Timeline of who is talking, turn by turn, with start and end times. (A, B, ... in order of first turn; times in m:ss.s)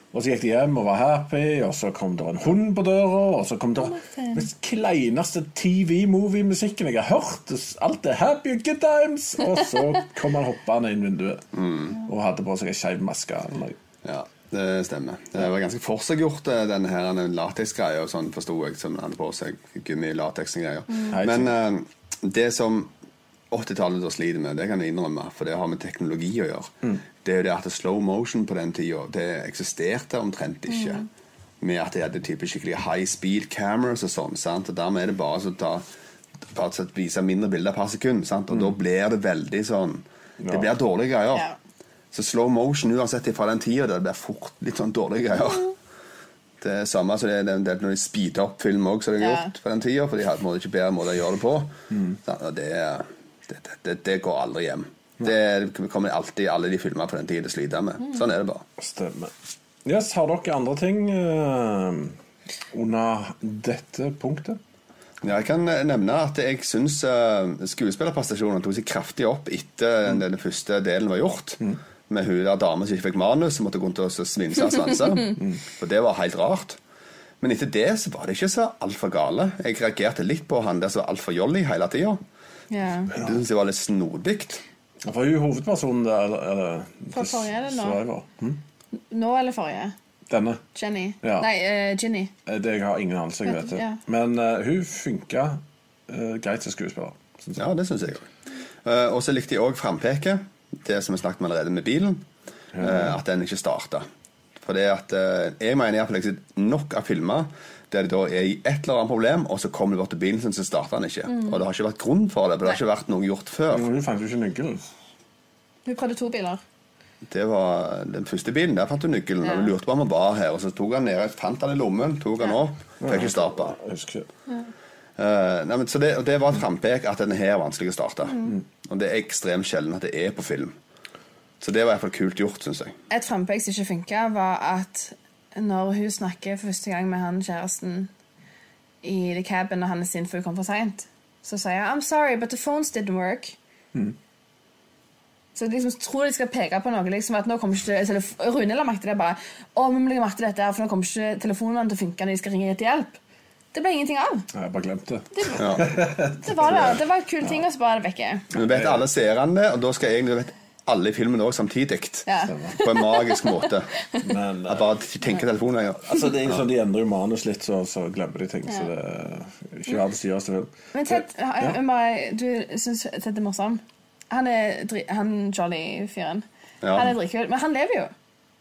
0:00.1-0:11.4 A
0:03.8-0:04.4 B
0:11.5-0:11.9 C
0:12.0-0:13.8 A
0:14.0-0:22.9 C
0:21.1-0:21.6 A
0:23.5-0:31.0 C
0:30.7-0:31.0 B
0:31.6-0:35.8 C
0:36.5-0:41.4 C
0:40.4-0:40.7 A
0:42.1-0:45.7 C
0:46.6-0:58.6 C
0:49.2-0:49.5 B
0:51.9-0:52.2 A
0:58.8-0:59.3 A
0:59.8-1:02.1 A
1:02.7-1:04.6 A
1:05.2-1:16.8 C
1:17.4-1:22.2 C
1:22.7-1:23.1 B
1:23.1-1:24.6 C
1:25.0-1:28.6 A
1:27.1-1:28.0 B
1:29.0-1:29.9 B
1:30.3-1:30.6 A
1:30.7-1:32.3 B
1:31.2-1:31.5 A
1:32.4-1:37.7 A
1:33.4-1:34.0 B
1:37.6-1:38.3 C
1:38.8-1:42.2 C
1:42.7-1:43.1 A
1:42.8-1:44.0 C
1:44.6-1:53.9 C
1:51.3-1:51.6 B
1:53.7-1:54.9 A
1:55.8-1:56.6 B
1:57.2-2:03.8 C
1:59.4-1:59.7 B
2:03.0-2:04.3 A
2:05.2-2:10.7 C
2:11.6-2:12.9 C
2:13.1-2:18.1 B
2:19.0-2:23.6 B
2:25.5-2:33.2 B
2:33.7-2:34.5 B
2:34.5-2:37.0 A
2:35.3-2:38.4 B
2:35.6-2:35.8 C
2:38.5-2:42.3 C
2:38.7-2:39.0 A
2:42.3-2:44.2 B
2:42.4-2:42.8 A
2:42.8-2:43.9 C
2:44.2-2:44.9 A
2:44.7-2:46.6 C
2:46.0-2:51.8 A
2:50.9-2:58.1 B
2:56.8-2:57.1 C